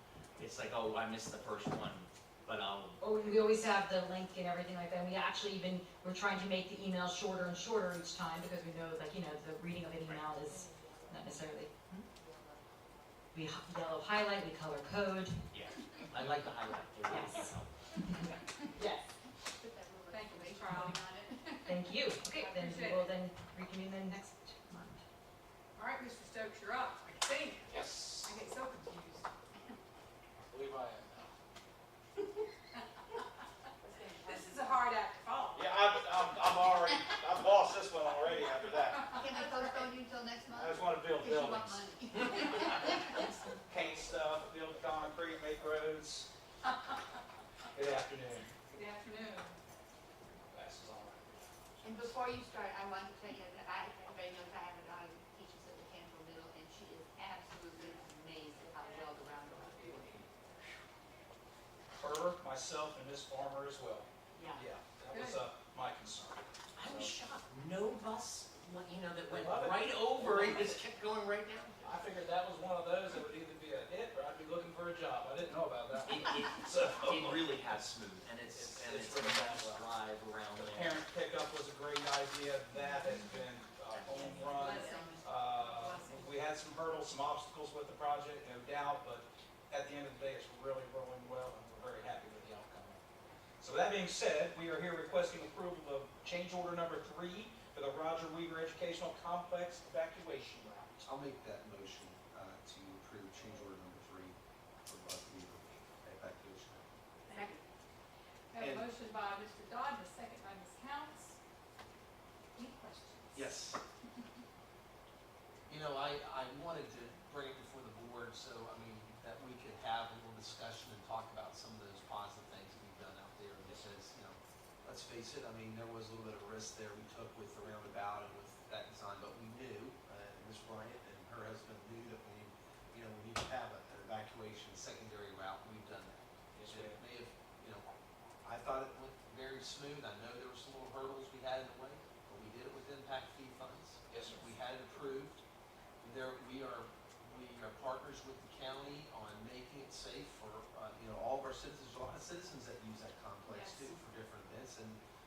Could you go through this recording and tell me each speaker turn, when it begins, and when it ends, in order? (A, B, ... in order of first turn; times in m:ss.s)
0:00.4-0:03.7 A
0:03.0-0:12.0 B
0:10.6-0:11.4 C
0:12.1-0:13.3 C
0:13.3-0:15.4 B
0:15.5-0:17.8 A
0:17.1-0:17.5 B
0:18.7-0:21.5 C
0:20.1-0:21.6 D
0:21.6-0:25.0 B
0:22.3-0:23.1 D
0:25.8-0:29.3 D
0:27.7-0:28.3 E
0:30.4-0:31.3 E
0:33.8-0:34.8 C
0:34.2-0:35.7 D
0:35.5-0:39.2 E
0:39.0-0:43.3 C
0:40.5-0:42.7 E
0:43.7-0:46.3 E
0:47.7-0:48.5 E
0:48.7-0:49.5 D
0:50.5-0:52.0 E
0:51.8-1:00.2 C
0:58.7-0:59.7 D
1:02.0-1:07.1 E
1:04.3-1:04.6 C
1:05.1-1:05.4 D
1:06.8-1:11.8 A
1:09.3-1:10.7 E
1:11.8-1:17.5 E
1:16.1-1:21.0 A
1:18.5-1:19.9 E
1:20.6-1:33.0 E
1:24.1-1:25.3 C
1:24.5-1:26.4 D
1:33.6-1:41.0 E
1:41.0-1:46.8 F
1:47.3-1:47.6 D
1:48.5-1:51.4 D
1:48.6-1:48.9 F
1:52.5-1:53.5 D
1:53.3-1:53.8 F
1:55.7-2:17.8 F
2:16.5-2:17.0 E
2:18.4-2:25.4 F
2:24.1-2:24.4 E
2:26.0-2:35.0 F
2:33.5-2:34.0 C